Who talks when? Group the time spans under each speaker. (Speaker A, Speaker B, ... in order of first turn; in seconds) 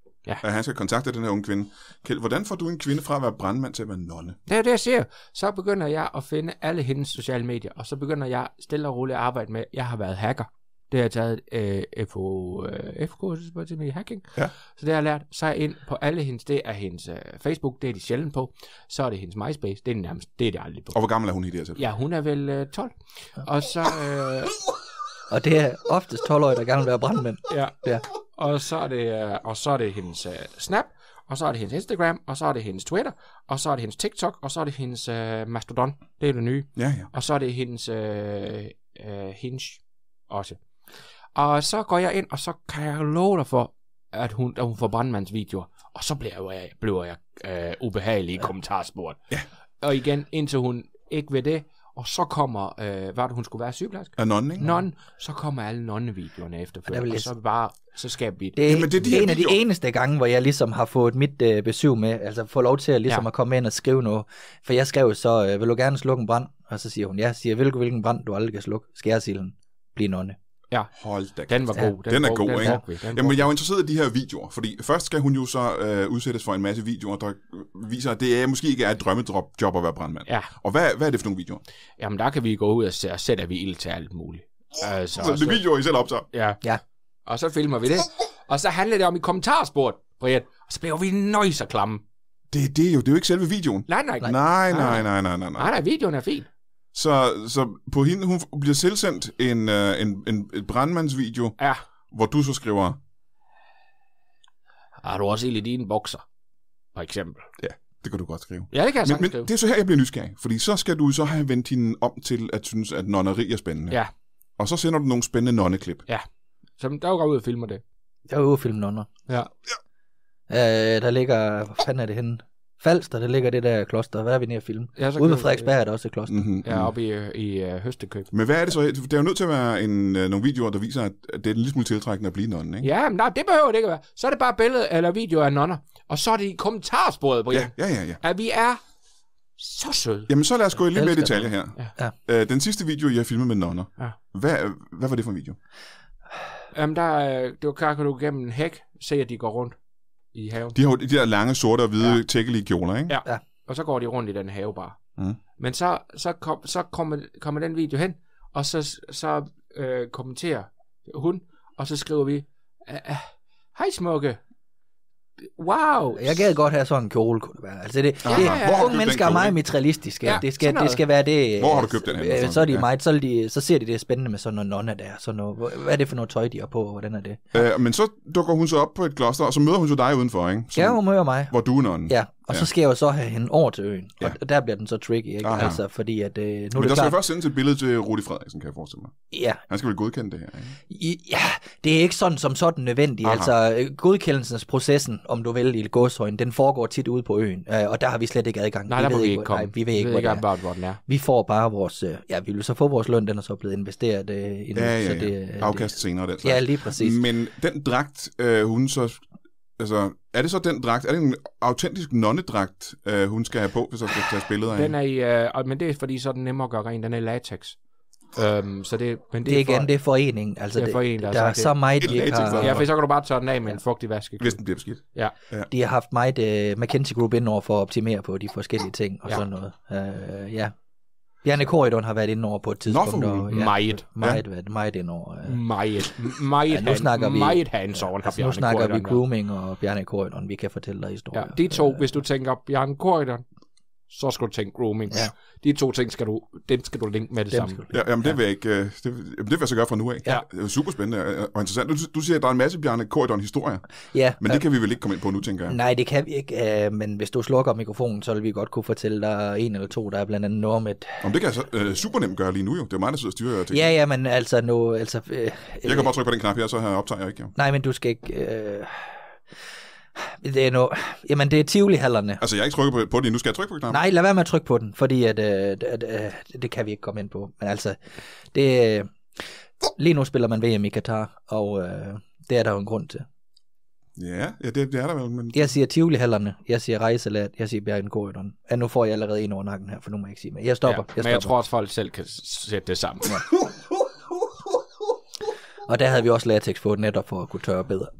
Speaker A: 0.4-4.4, 20.9-21.9, 36.8-37.1, 54.2-54.6, 58.6-59.6, 70.9-81.6, 85.1-86.3, 92.5-95.7, 96.9-101.6, 102.1-103.0, 107.6-114.0, 114.6-116.0, 126.3-126.9, 128.3-132.9, 137.5-138.2, 140.3-145.6, 150.7-153.1, 168.2-169.6, 171.6-172.8, 177.5-182.7, 185.4-185.8, 186.7-189.1, 189.7-190.8, 193.2-193.5, 204.7-209.2, 209.8-214.9, 222.0-222.9, 224.4-225.7, 232.8-234.4, 247.9-253.8, 254.4-255.8, 261.2-263.9, 265.8-267.5, 272.4-274.0, 284.1-285.7
Speaker B: 4.5-21.0, 21.8-24.6, 27.5-40.6, 41.3-49.2, 49.8-59.3, 70.7-73.5, 82.0-85.6, 86.3-86.6, 87.2-92.0, 93.9-96.5, 105.0-106.2, 106.9-107.5, 108.7-109.5, 116.8-117.8, 125.0-125.7, 126.6-128.3, 132.8-138.8, 139.6-140.3, 146.7-149.8, 150.3-150.8, 153.1-155.0, 155.6-164.4, 165.6-166.5, 168.3-169.1, 170.2-171.0, 198.9-201.0, 214.7-217.8, 218.3-219.9, 220.7-225.3, 233.5-234.0, 235.4-239.2, 241.3-243.4, 244.1-247.8, 290.9-293.4
Speaker C: 25.3-28.1, 56.9-57.3, 58.5-70.4, 72.5-72.8, 118.3-119.1, 120.5-126.6, 140.9-142.1, 166.2-177.6, 180.7-181.6, 182.1-187.2, 189.3-189.6, 190.9-200.4, 201.1-207.2, 219.4-222.9, 225.7-230.7, 231.4-235.6, 236.7-242.0, 247.5-248.3, 254.1-254.6, 255.7-261.2, 263.7-266.1, 267.6-269.3, 270.1-272.4, 273.9-278.0, 278.5-279.1, 280.0-283.2, 285.5-291.5, 295.9-298.1